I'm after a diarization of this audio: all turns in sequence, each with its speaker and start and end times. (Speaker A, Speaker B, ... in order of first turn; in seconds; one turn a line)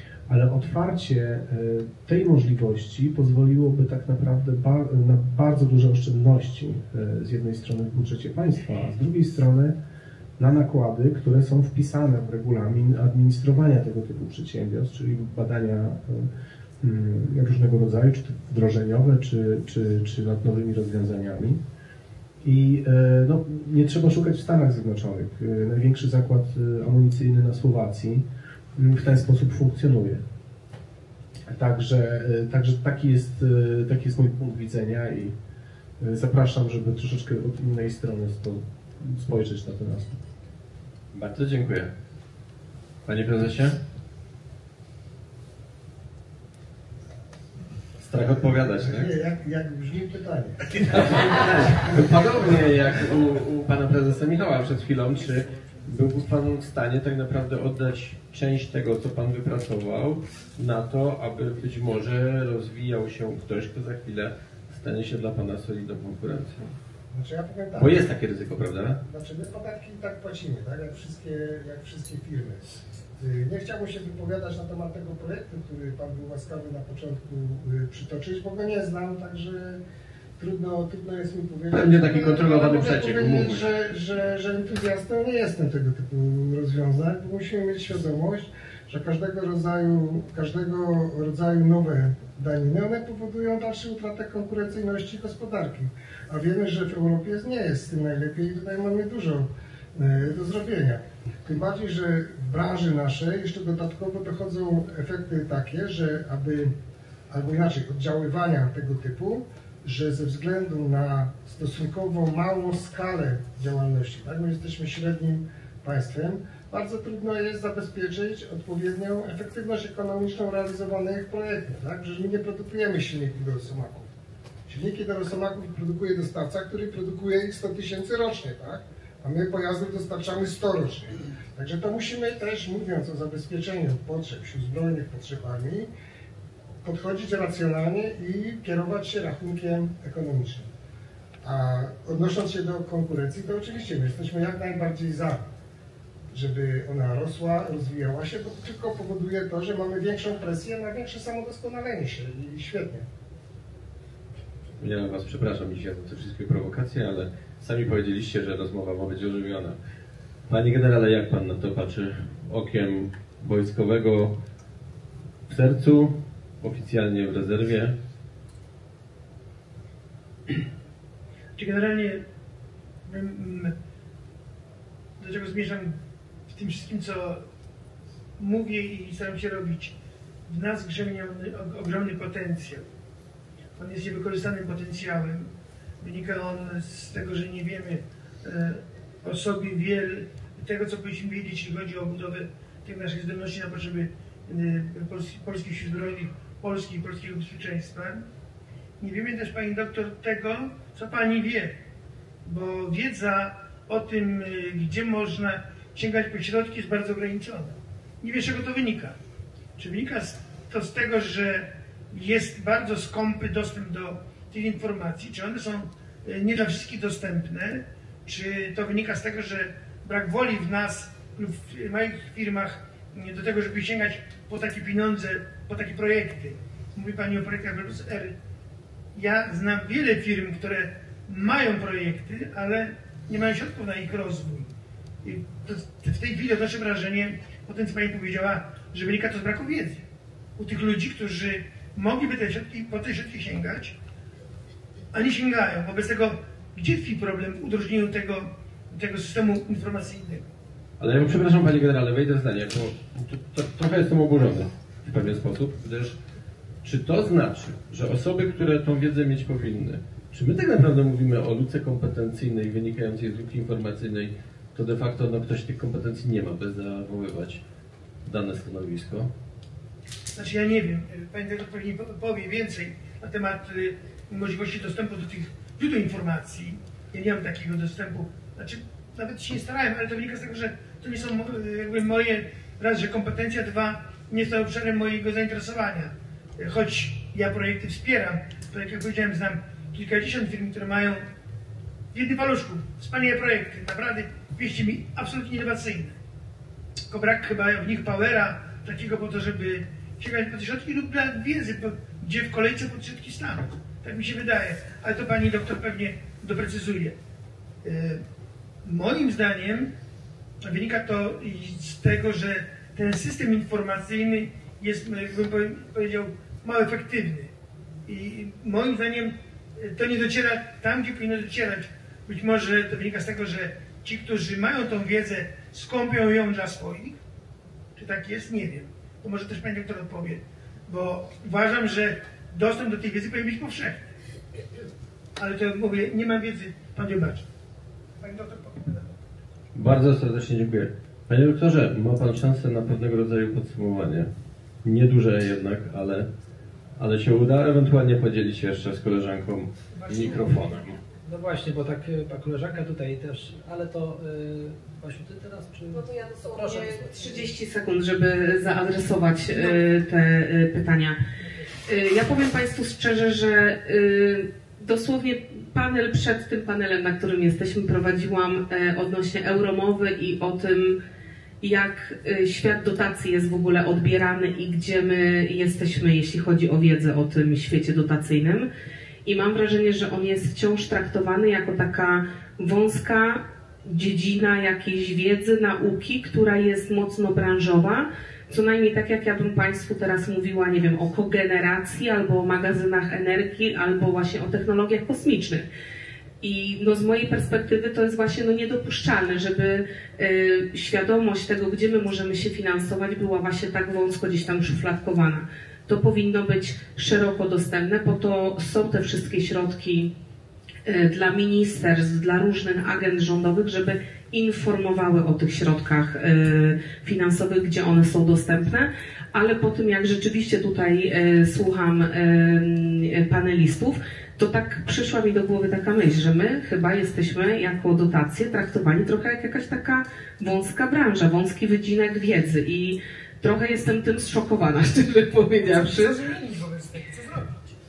Speaker A: 0.3-9.8
Speaker A: 10.4-16.3
Speaker A: 16.8-21.6
Speaker A: 22.4-28.2
Speaker A: 28.8-30.2
Speaker A: 31.5-35.4
Speaker A: 36.0-40.2
Speaker B: 41.1-41.9
Speaker B: 43.1-43.8
Speaker B: 48.0-49.1
Speaker C: 48.7-52.1
Speaker B: 50.8-66.7
Speaker C: 67.1-68.1
Speaker B: 67.8-69.0
Speaker C: 68.8-79.8
Speaker C: 80.4-106.7
Speaker B: 81.7-83.7
Speaker C: 107.3-124.1
Speaker C: 124.7-135.9
Speaker C: 136.8-140.7
Speaker C: 141.4-145.5
Speaker C: 146.3-153.1
Speaker B: 154.8-159.8
Speaker B: 160.5-164.4
Speaker B: 165.5-167.9
Speaker D: 171.6-172.2
Speaker D: 173.1-173.8
Speaker D: 175.2-176.0
Speaker D: 176.5-177.4
Speaker D: 178.4-179.9
Speaker D: 180.5-182.9
Speaker D: 183.8-198.2
Speaker D: 199.0-201.8
Speaker D: 202.4-209.2
Speaker D: 209.8-228.3
Speaker D: 229.2-234.7
Speaker D: 235.2-240.1
Speaker D: 240.6-244.0
Speaker D: 245.1-250.5
Speaker B: 251.0-256.2
Speaker B: 256.8-267.6
Speaker B: 268.2-269.3
Speaker D: 270.4-291.3
Speaker D: 292.1-296.2
Speaker D: 297.1-307.2
Speaker D: 307.8-308.2
Speaker D: 308.8-309.9
Speaker D: 310.6-317.5
Speaker D: 318.1-327.2
Speaker D: 328.0-334.1
Speaker D: 335.4-337.5
Speaker D: 338.2-339.1
Speaker B: 339.7-344.3
Speaker B: 344.8-346.3
Speaker B: 347.0-351.0
Speaker D: 350.1-350.6
Speaker E: 351.2-357.5
Speaker F: 356.0-361.2
Speaker F: 361.9-371.0
Speaker F: 371.6-378.7
Speaker F: 379.2-395.7
Speaker F: 396.4-410.1
Speaker F: 410.9-436.2
Speaker D: 435.7-437.8